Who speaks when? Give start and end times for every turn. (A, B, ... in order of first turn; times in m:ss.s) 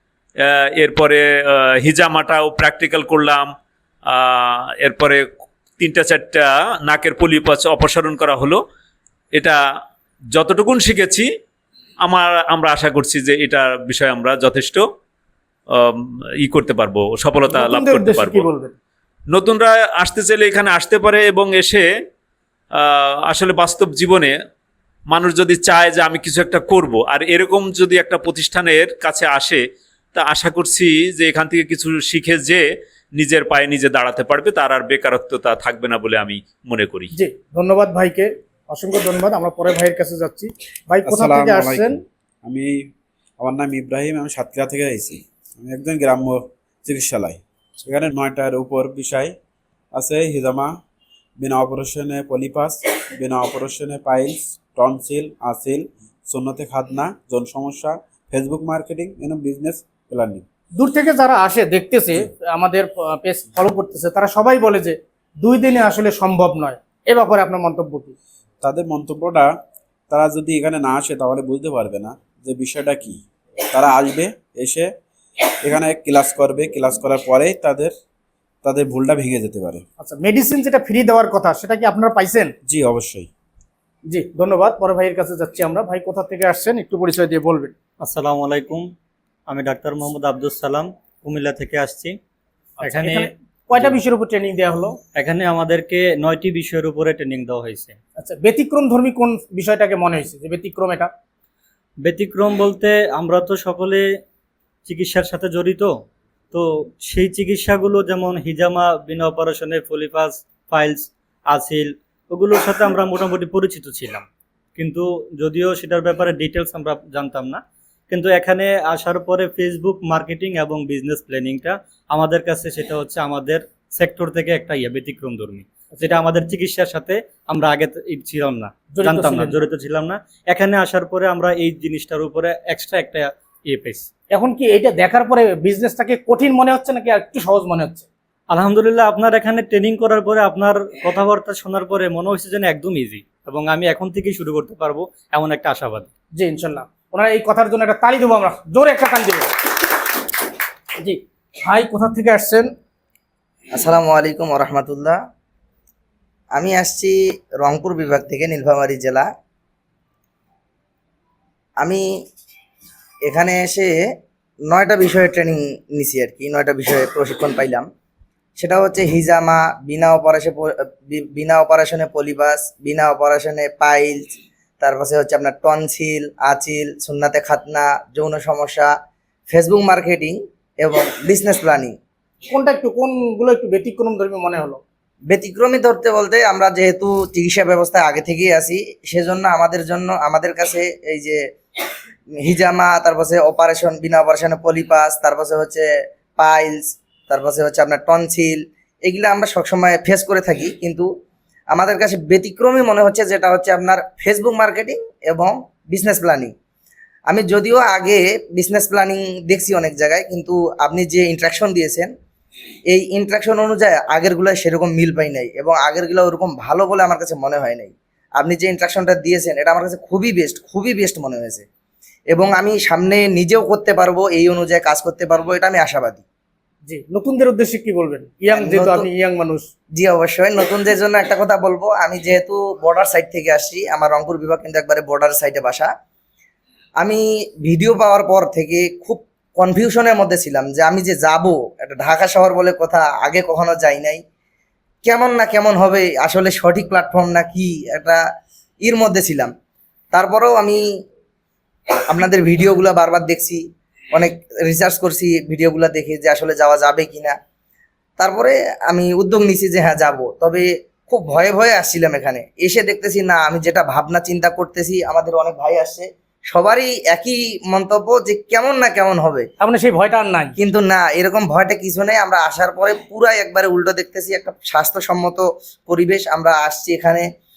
0:00.4-0:03.5 A
0:04.1-0:05.2 A
0:05.8-0:08.6 A
0:10.3-0:11.3 A
0:12.0-0:14.8 A
0:15.7-0:18.5 A
0:17.5-0:18.8 B
0:19.3-0:21.8 A
0:22.7-0:24.3 A
0:25.1-0:29.6 A
0:30.1-0:32.6 A
0:33.2-0:37.1 A
0:37.1-0:42.0 B
0:41.0-0:42.9 C
0:43.4-0:49.3 C
0:49.9-0:50.7 C
0:51.4-1:00.4 C
1:00.7-1:08.1 B
1:08.6-1:09.5 C
1:10.1-1:14.9 C
1:15.6-1:17.9 C
1:18.6-1:19.8 C
1:20.0-1:22.5 B
1:22.6-1:23.3 C
1:24.1-1:27.7 B
1:28.0-1:28.9 D
1:29.5-1:32.2 D
1:32.8-1:34.0 D
1:32.8-1:35.0 B
1:35.1-1:38.0 D
1:38.2-1:41.1 B
1:42.0-1:44.1 D
1:44.8-1:46.0 D
1:46.5-2:14.1 D
2:08.9-2:09.6 B
2:14.3-2:18.1 B
2:18.5-2:26.1 D
2:26.3-2:29.5 B
2:31.0-2:32.7 B
2:33.7-2:35.2 E
2:36.5-2:39.3 E
2:41.8-2:42.0 E
2:43.2-2:44.0 E
2:44.7-2:47.9 E
2:48.6-2:54.2 E
2:54.8-2:58.9 E
2:59.5-3:02.0 E
3:02.5-3:04.8 B
3:05.3-3:11.4 E
3:12.4-3:15.9 E
3:16.4-3:21.0 E
3:21.7-3:26.5 E
3:27.3-3:32.1 E
3:32.9-3:41.6 E
3:42.3-3:46.2 E
3:46.9-3:49.6 B
3:48.5-3:49.1 E
3:49.9-3:55.9 E
3:57.0-4:04.2 E
4:05.0-4:08.2 E
4:08.8-4:09.5 E
4:10.1-4:10.8 E
4:12.1-4:13.6 E
4:14.1-4:17.3 E
4:18.2-4:29.5 E
4:29.6-4:30.6 B
4:30.6-4:37.2 E